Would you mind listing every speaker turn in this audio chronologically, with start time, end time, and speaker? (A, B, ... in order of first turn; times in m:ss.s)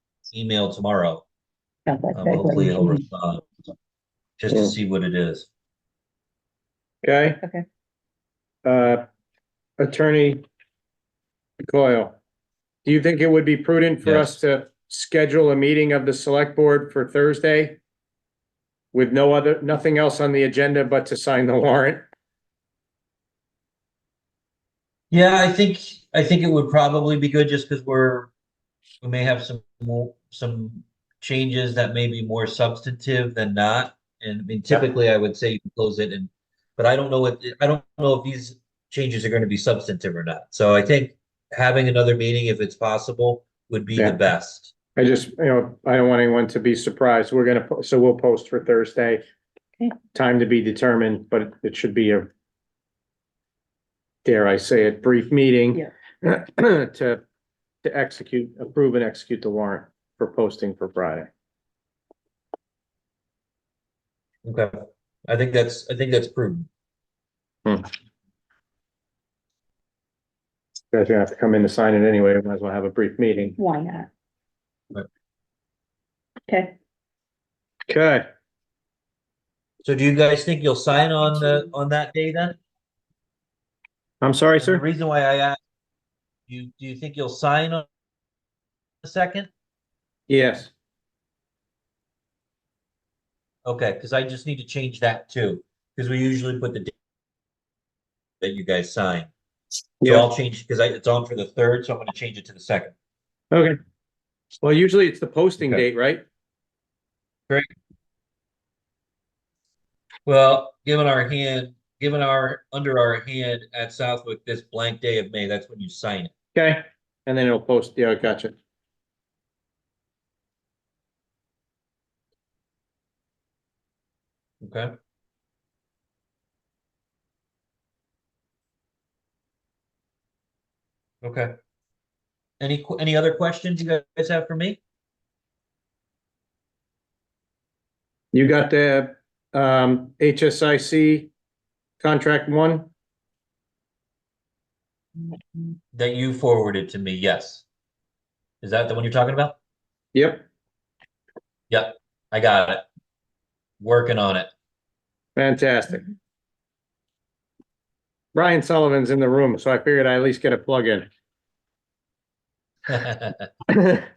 0:00.3-0:01.2 A
0:01.9-0:03.0 B
0:02.1-0:03.4 A
0:04.4-0:05.5 A
0:07.0-0:07.4 C
0:08.6-0:09.0 C
0:09.8-0:10.4 C
0:11.6-0:12.2 C
0:12.8-0:17.8 C
0:14.0-0:14.4 A
0:18.9-0:22.0 C
0:25.1-0:28.3 A
0:29.0-0:44.7 A
0:45.0-0:49.2 C
0:50.1-0:52.3 C
0:54.2-0:57.2 C
0:57.8-1:01.3 C
1:04.4-1:06.7 A
1:10.9-1:13.6 C
1:13.6-1:14.1 B
1:16.5-1:16.8 B
1:17.9-1:18.3 C
1:19.8-1:22.6 A
1:24.2-1:24.8 C
1:24.6-1:25.6 A
1:26.5-1:27.9 A
1:29.0-1:29.5 A
1:30.3-1:30.7 C
1:33.6-1:36.9 A
1:38.4-1:39.3 A
1:40.0-1:40.3 C
1:40.0-1:42.9 A
1:43.5-1:43.8 C
1:44.6-1:46.2 C
1:50.3-1:56.3 A
1:56.5-1:58.5 C
2:04.6-2:05.0 A
2:11.2-2:11.5 A
2:12.6-2:14.8 A
2:18.3-2:21.3 C
2:22.0-2:22.9 C
2:25.9-2:27.6 A
2:28.6-2:29.6 A
2:30.1-2:30.4 C
2:31.7-2:32.8 A
2:33.8-2:34.5 A
2:35.4-2:36.1 C
2:38.3-2:41.1 C
2:42.9-2:43.5 A
2:43.7-2:44.0 C